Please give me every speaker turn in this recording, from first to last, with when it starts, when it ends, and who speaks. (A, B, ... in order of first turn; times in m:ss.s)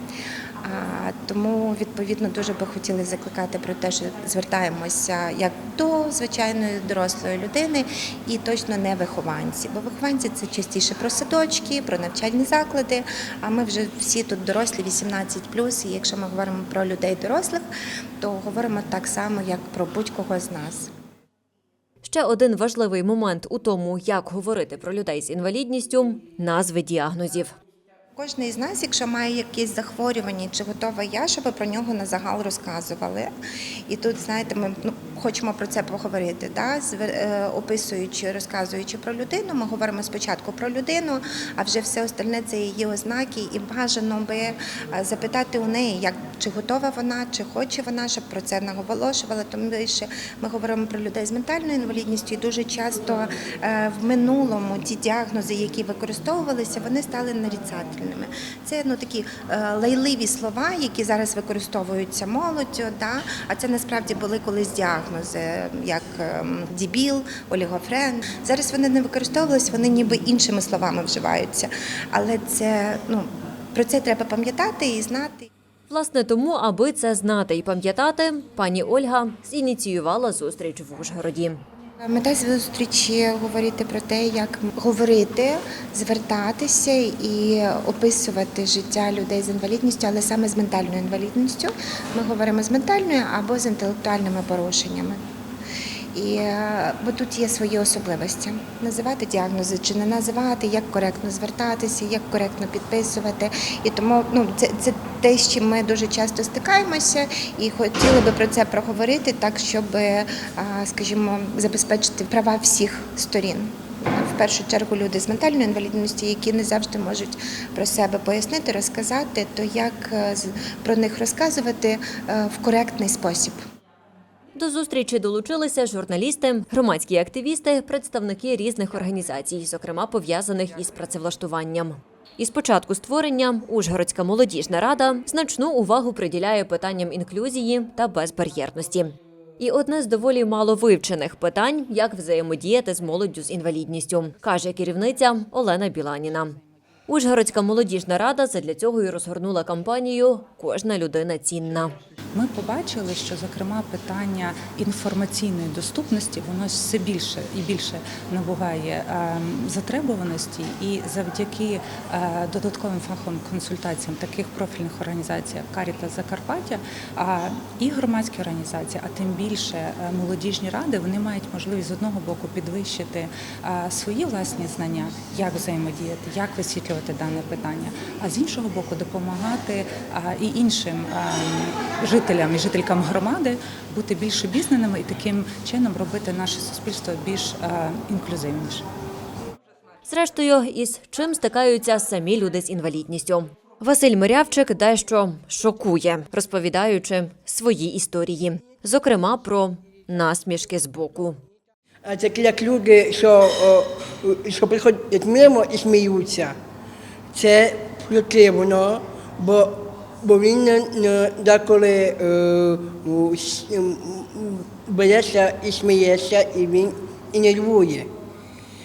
0:00.6-0:17.6 A
0:18.2-0:20.9 A
0:22.0-0:27.5 B
0:28.2-0:33.3 A
0:33.9-1:15.5 A
1:15.9-1:21.6 B
1:22.0-1:35.2 A
1:36.1-2:03.6 A
2:04.5-2:31.9 B
2:32.3-3:08.8 C
3:10.0-3:21.4 B
3:22.0-3:26.6 D
3:27.3-3:38.1 D